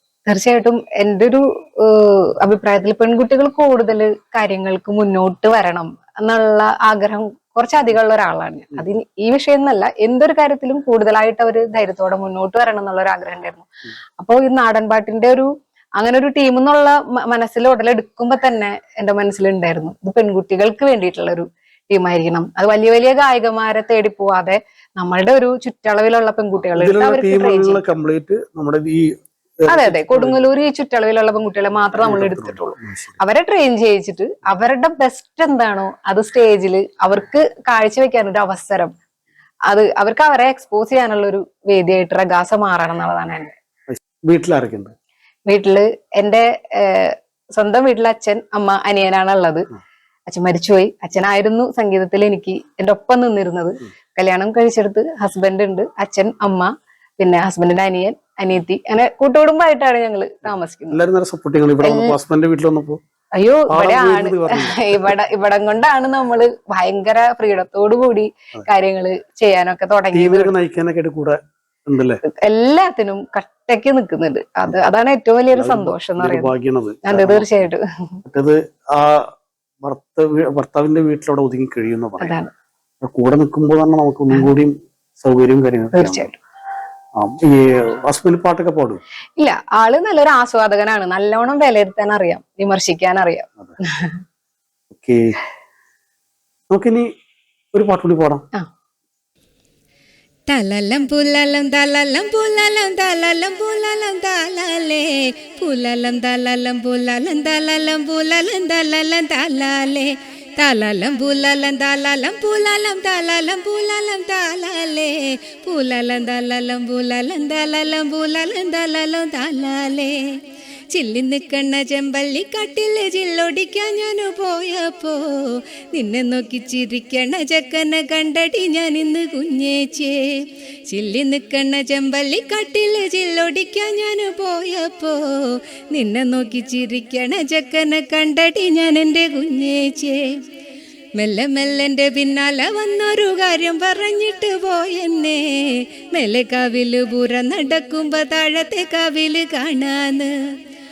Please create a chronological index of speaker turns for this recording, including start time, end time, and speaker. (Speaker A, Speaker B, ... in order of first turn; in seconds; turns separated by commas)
Speaker A: 0.3-27.8, Speaker B: 26.7-30.5, Speaker A: 29.7-38.9, Speaker B: 32.0-33.1, Speaker A: 39.7-43.5, Speaker B: 43.9-44.9, Speaker A: 45.5-49.7, Speaker A: 50.3-61.0, Speaker B: 60.9-63.0, Speaker A: 61.8-62.1, Speaker A: 63.3-70.5, Speaker B: 63.7-65.1, Speaker B: 70.1-72.2, Speaker A: 72.4-76.5, Speaker B: 75.5-77.7, Speaker A: 77.0-78.2, Speaker B: 78.2-79.3, Speaker B: 79.8-82.3, Speaker A: 82.2-82.5, Speaker B: 83.0-86.3, Speaker A: 85.9-86.4, Speaker B: 87.2-89.0, Speaker A: 89.4-94.2, Speaker B: 94.9-95.4, Speaker B: 96.7-97.1, Speaker B: 97.7-98.5, Speaker C: 100.5-120.4, Speaker C: 120.9-140.4, Speaker C: 141.2-150.3